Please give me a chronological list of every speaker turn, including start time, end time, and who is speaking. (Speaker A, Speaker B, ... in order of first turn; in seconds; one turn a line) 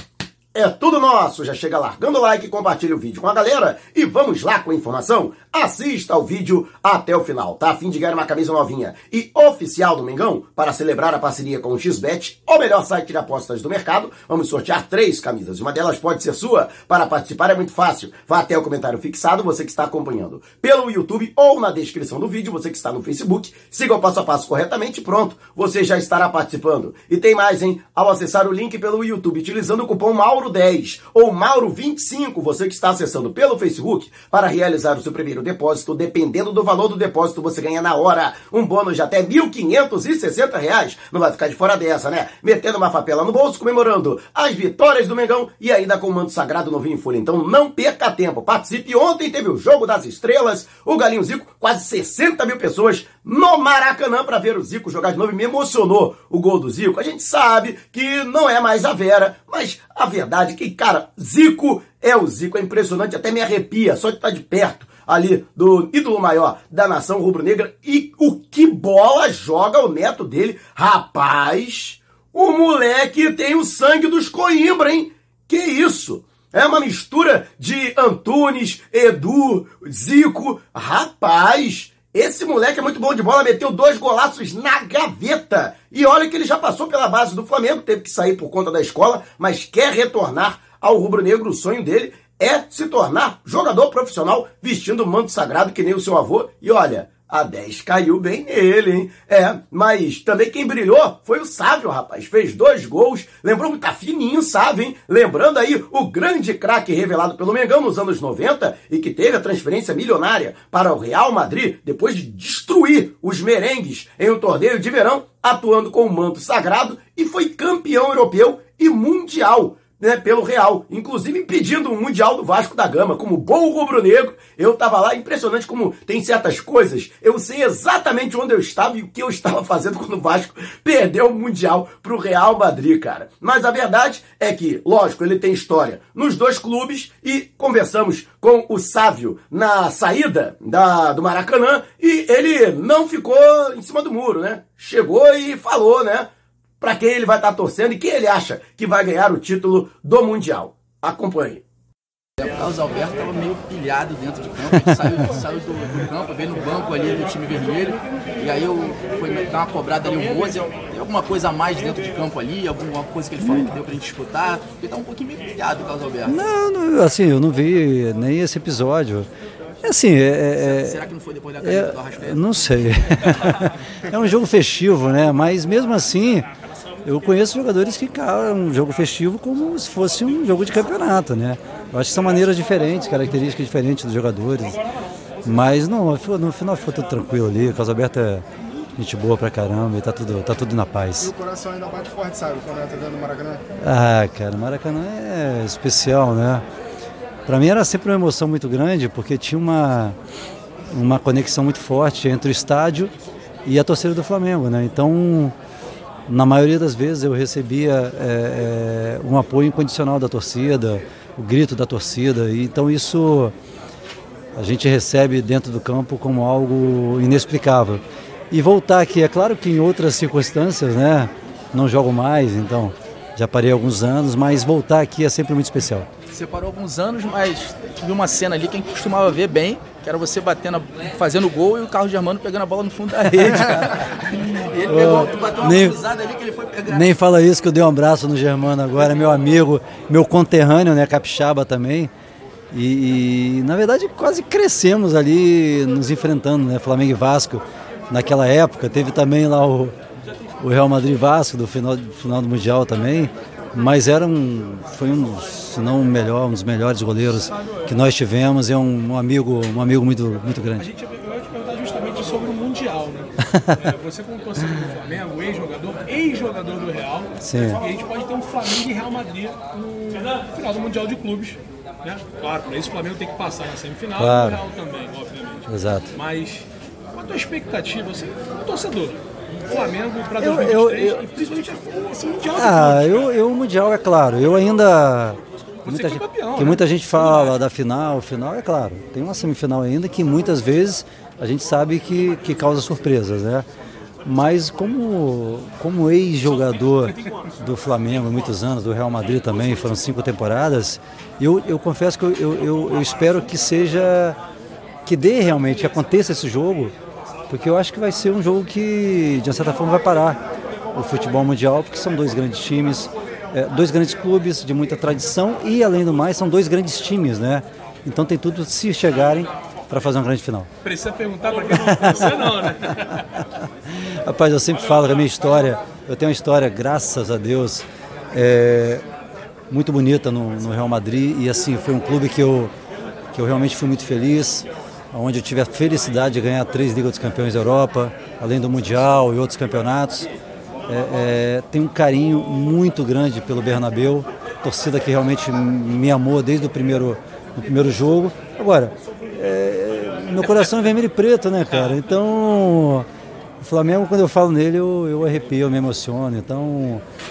Speaker A: 0.5-146.3
Speaker A: 146.8-151.6
Speaker B: 152.4-166.3
Speaker C: 166.3-169.3
Speaker C: 169.8-171.0
Speaker B: 170.6-172.4
Speaker C: 171.6-176.5
Speaker C: 177.0-184.8
Speaker C: 185.4-188.4
Speaker C: 189.0-191.3
Speaker D: 191.2-193.6
Speaker C: 193.8-196.6
Speaker C: 197.5-200.2
Speaker C: 200.9-203.1
Speaker C: 203.6-205.5
Speaker C: 206.3-213.5
Speaker C: 214.6-226.1
Speaker B: 226.3-237.1
Speaker C: 234.9-236.0
Speaker C: 236.9-242.1
Speaker C: 242.7-249.9
Speaker C: 250.6-260.9
Speaker E: 260.8-283.3
Speaker C: 263.5-263.8
Speaker C: 267.4-267.8
Speaker C: 274.2-274.6
Speaker C: 275.7-276.1
Speaker C: 280.4-281.2
Speaker C: 282.6-293.6
Speaker E: 285.8-287.5
Speaker C: 294.2-304.4
Speaker C: 305.1-306.9
Speaker C: 307.5-310.4
Speaker C: 310.9-320.7
Speaker E: 320.8-323.2
Speaker C: 321.8-322.2
Speaker C: 323.4-329.0
Speaker C: 329.7-332.7
Speaker C: 333.3-340.3
Speaker C: 340.9-353.1
Speaker C: 353.6-357.0